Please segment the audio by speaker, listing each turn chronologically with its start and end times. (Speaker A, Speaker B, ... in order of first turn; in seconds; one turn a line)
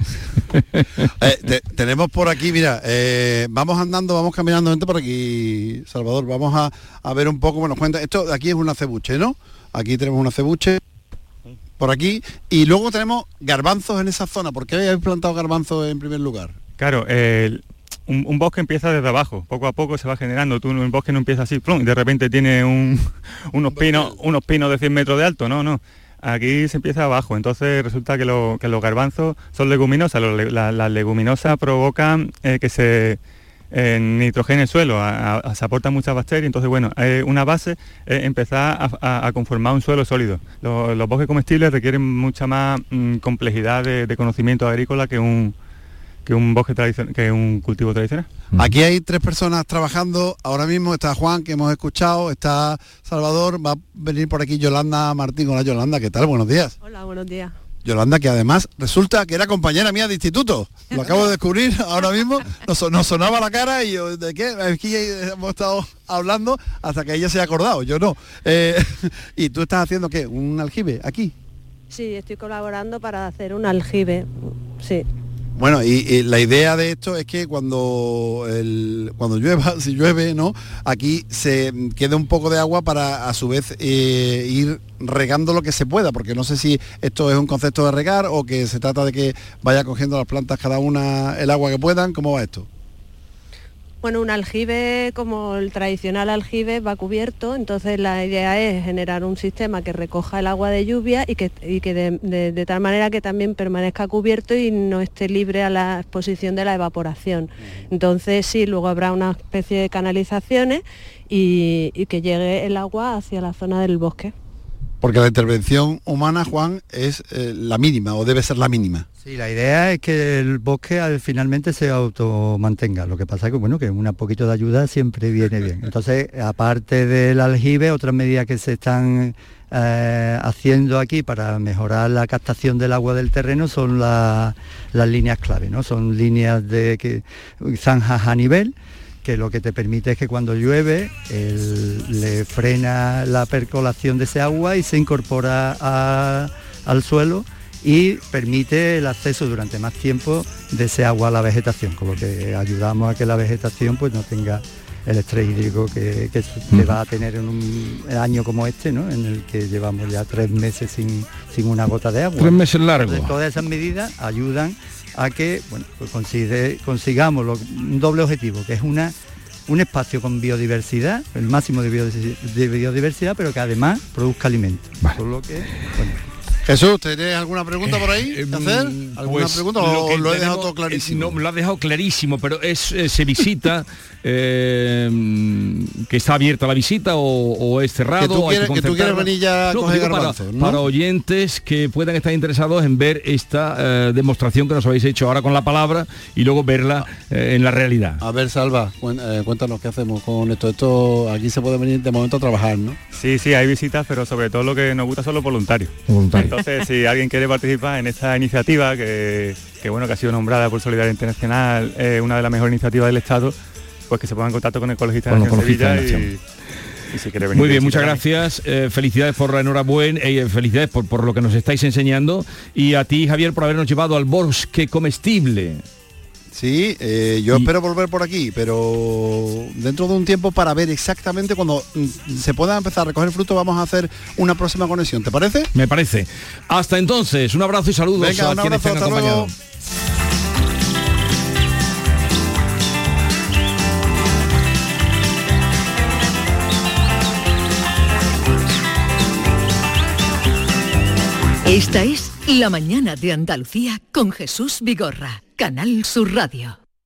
Speaker A: 1.2-10.8
Speaker A: 11.8-16.5
Speaker B: 16.8-33.2
Speaker B: 33.7-45.5
Speaker B: 46.3-48.3
Speaker A: 48.6-56.7
Speaker C: 56.8-57.5
Speaker A: 57.9-71.3
Speaker C: 71.9-75.1
Speaker A: 75.6-92.7
Speaker C: 94.0-114.3
Speaker A: 115.0-119.1
Speaker D: 119.2-169.1
Speaker E: 162.4-163.3
Speaker D: 169.7-176.2
Speaker A: 176.7-181.4
Speaker E: 177.9-198.2
Speaker A: 188.2-190.8
Speaker A: 198.2-203.0
Speaker B: 203.1-213.6
Speaker E: 206.1-206.6
Speaker B: 214.1-216.4
Speaker E: 215.3-216.3
Speaker B: 217.1-218.2
Speaker E: 217.5-225.8
Speaker A: 226.5-235.7
Speaker E: 235.7-239.5
Speaker A: 238.2-239.5
Speaker F: 251.7-256.8